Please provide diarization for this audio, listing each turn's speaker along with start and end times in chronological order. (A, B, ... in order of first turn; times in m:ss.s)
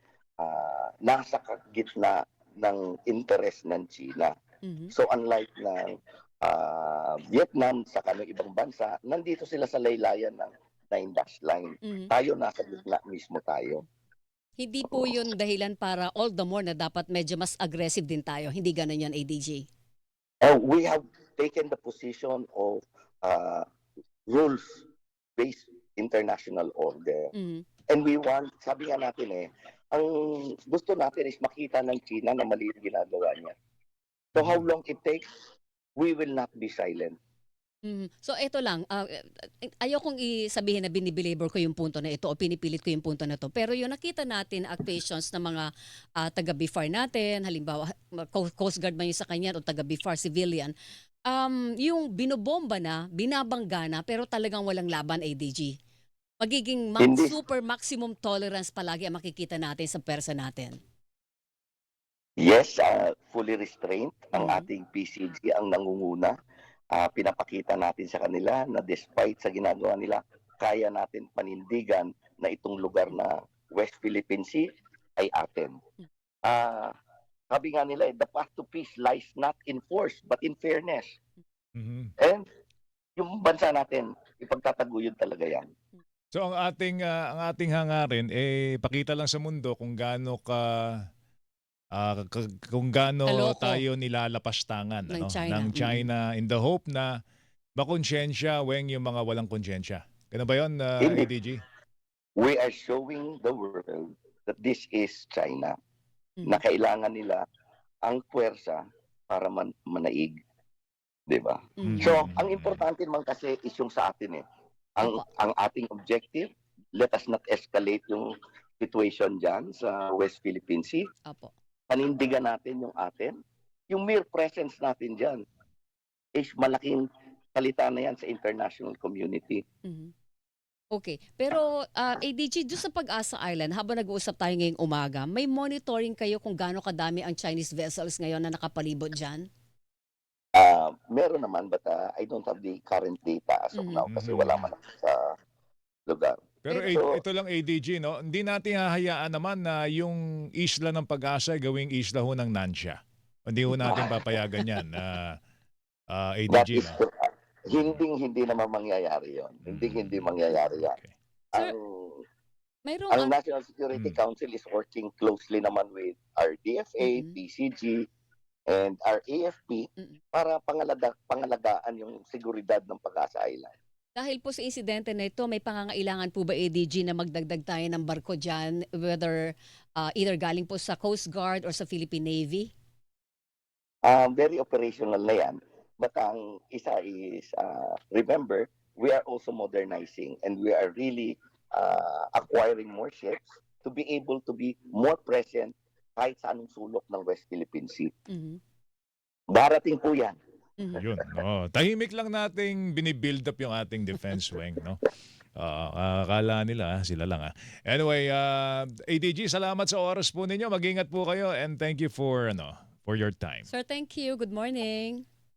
0:00.4-0:04.3 A
0:04.6-0:04.9 B
0:04.9-0:13.8 A
0:11.8-0:12.1 B
0:14.6-0:19.7 B
0:14.9-0:15.2 A
0:20.4-0:23.6 A
0:24.3-0:24.8 A
0:25.4-0:27.3 A
0:27.3-0:27.6 B
0:27.9-0:33.5 A
0:34.3-0:35.2 A
0:34.4-0:34.6 C
0:36.0-0:37.1 A
0:37.8-0:45.7 B
0:46.2-0:50.7 B
0:51.3-0:55.7 B
0:56.4-1:00.8 B
0:57.0-0:57.4 A
1:02.4-1:06.3 A
1:04.3-1:04.6 B
1:06.9-1:14.6 A
1:15.2-1:15.8 A
1:16.4-1:16.9 A
1:17.5-1:21.1 A
1:21.8-1:22.1 C
1:22.2-1:22.4 A
1:23.2-1:25.6 A
1:26.3-1:30.8 C
1:31.9-1:37.1 C
1:33.3-1:33.8 B
1:35.1-1:36.1 B
1:37.8-1:41.6 C
1:41.0-1:41.3 A
1:42.4-1:45.7 A
1:46.4-1:46.6 B
1:46.4-1:47.4 A
1:48.0-1:50.4 A
1:51.3-1:54.4 A
1:51.8-1:52.1 B
1:51.8-1:52.8 C
1:55.0-1:58.2 A
1:58.8-2:01.0 A
2:01.3-2:01.5 B
2:01.9-2:03.3 A
2:03.9-2:05.4 A
2:06.4-2:07.0 A
2:07.5-2:09.6 A
2:09.8-2:10.1 B
2:10.9-2:19.4 B
2:20.6-2:25.3 A
2:23.7-2:24.0 B
2:24.1-2:24.6 C
2:26.1-2:27.2 A
2:26.6-2:35.4 C
2:33.8-2:34.0 B
2:33.8-2:34.2 A
2:36.1-2:37.0 C
2:36.5-2:41.0 A
2:39.6-2:41.1 C
2:41.5-2:42.2 A
2:42.8-2:43.3 B
2:43.1-2:48.0 A
2:43.9-2:44.2 C
2:47.0-2:47.4 B
2:48.7-2:53.7 A
2:54.2-2:59.4 B
3:00.0-3:02.7 B
3:04.0-3:18.1 A
3:18.3-3:18.6 B
3:19.5-3:20.4 A
3:21.0-3:25.0 C
3:25.6-3:33.7 C
3:33.7-3:35.2 B